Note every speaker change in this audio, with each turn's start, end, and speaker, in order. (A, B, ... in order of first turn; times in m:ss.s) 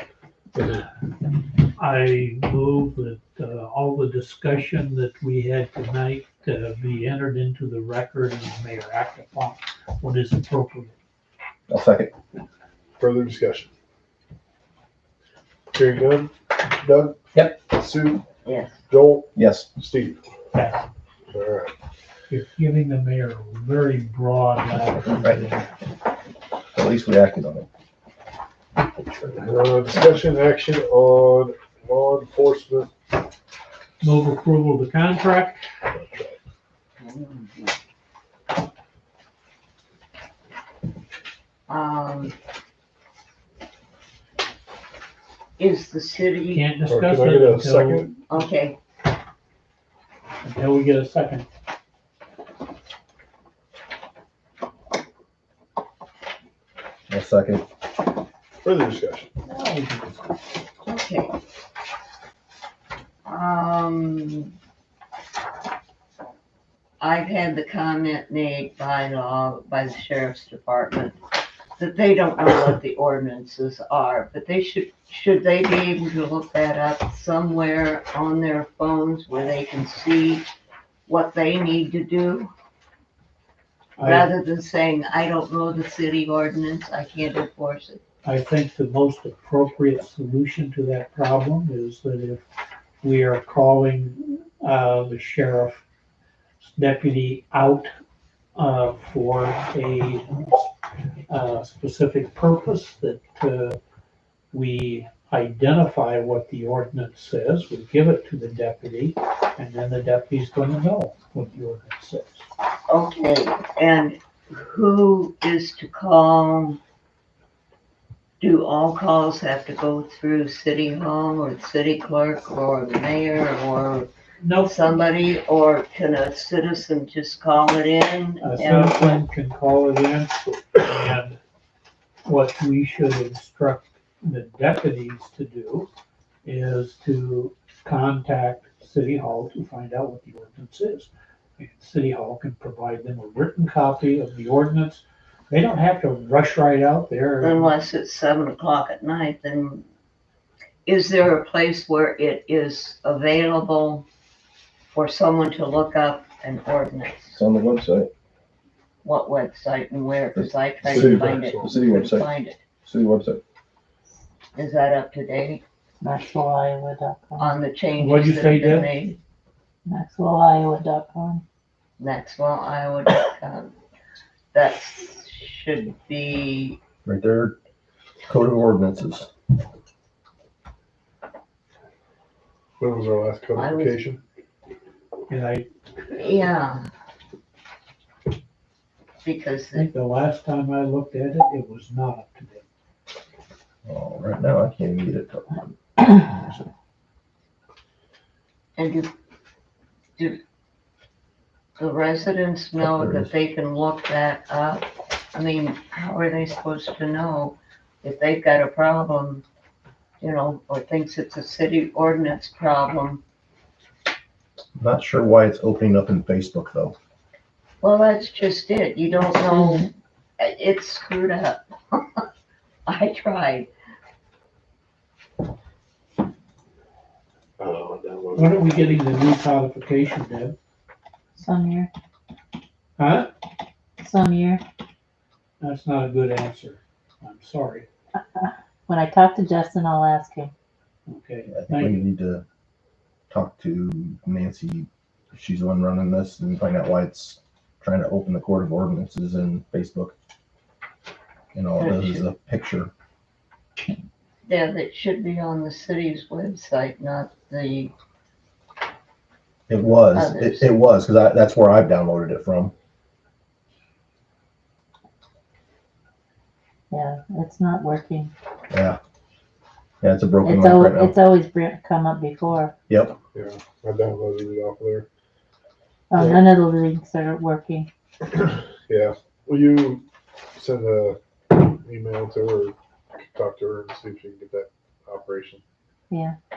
0:00.6-0:00.8 A
0:01.8-0:10.9 B
0:11.7-0:12.1 C
0:13.0-0:13.7 A
0:15.7-0:18.2 A
0:18.4-0:18.8 D
0:18.9-0:20.2 A
0:19.4-0:19.7 C
0:20.5-0:20.8 B
0:21.3-0:21.7 A
0:22.3-0:25.7 B
0:25.1-0:25.4 C
0:26.7-0:27.7 C
0:29.2-0:32.9 A
0:34.0-0:35.6 B
0:35.9-0:36.4 A
0:37.0-0:37.7 D
0:41.7-0:42.4 D
0:45.6-0:46.7 D
0:46.5-0:48.4 B
0:46.8-0:48.1 A
0:48.2-0:48.8 D
0:50.4-0:51.5 B
0:57.1-0:57.6 C
0:58.6-0:59.3 A
0:59.4-1:00.3 B
1:00.8-1:01.3 D
1:03.3-1:04.5 D
1:07.0-1:11.2 D
1:11.8-1:20.5 D
1:21.1-1:22.5 D
1:24.0-1:24.3 B
1:24.0-1:28.0 D
1:28.2-1:32.4 B
1:33.0-1:35.8 B
1:36.6-1:37.9 B
1:38.6-1:40.7 B
1:41.3-1:43.8 B
1:44.5-1:52.4 B
1:52.9-1:56.8 D
1:58.4-2:04.1 D
2:04.4-2:04.8 B
2:04.6-2:09.2 D
2:08.4-2:11.4 B
2:12.2-2:15.9 B
2:16.4-2:27.7 B
2:27.4-2:29.8 D
2:30.9-2:34.0 D
2:34.9-2:37.4 D
2:37.3-2:38.1 C
2:39.0-2:42.6 D
2:40.4-2:42.3 C
2:40.8-2:41.8 A
2:42.8-2:43.4 C
2:44.6-2:45.6 D
2:46.0-2:47.5 E
2:47.4-2:49.2 D
2:48.0-2:49.0 B
2:49.9-2:51.4 E
2:52.0-2:53.7 D
2:54.5-2:56.8 D
2:57.0-2:57.6 C
2:58.3-2:59.3 C
3:02.8-3:04.2 A
3:03.6-3:04.0 D
3:05.3-3:05.7 B
3:06.1-3:06.9 D
3:09.2-3:09.9 D
3:09.8-3:12.6 B
3:13.9-3:16.6 C
3:18.8-3:19.1 D
3:21.8-3:29.4 D
3:22.8-3:23.3 C
3:30.2-3:33.2 D
3:34.8-3:37.0 C
3:37.8-3:39.9 D
3:40.4-3:42.3 D
3:42.9-3:43.7 D
3:47.6-3:48.9 A
3:48.4-3:50.6 B
3:51.4-3:51.9 E
3:53.0-3:53.3 B
3:54.0-3:54.6 E
3:55.6-3:57.9 B
3:58.2-4:00.5 E
4:01.1-4:02.0 B
4:01.5-4:02.4 C
4:03.3-4:10.1 C
4:11.6-4:12.9 C
4:11.8-4:12.2 D
4:14.4-4:17.9 D
4:19.7-4:22.7 C
4:20.1-4:20.7 D
4:26.9-4:28.3 E
4:28.7-4:29.0 C
4:30.0-4:31.2 C
4:30.4-4:32.7 E
4:32.9-4:33.2 C
4:33.3-4:35.1 A
4:36.1-4:37.9 E
4:36.2-4:36.4 A
4:38.9-4:40.0 A
4:40.6-4:45.6 A
4:46.1-4:46.4 E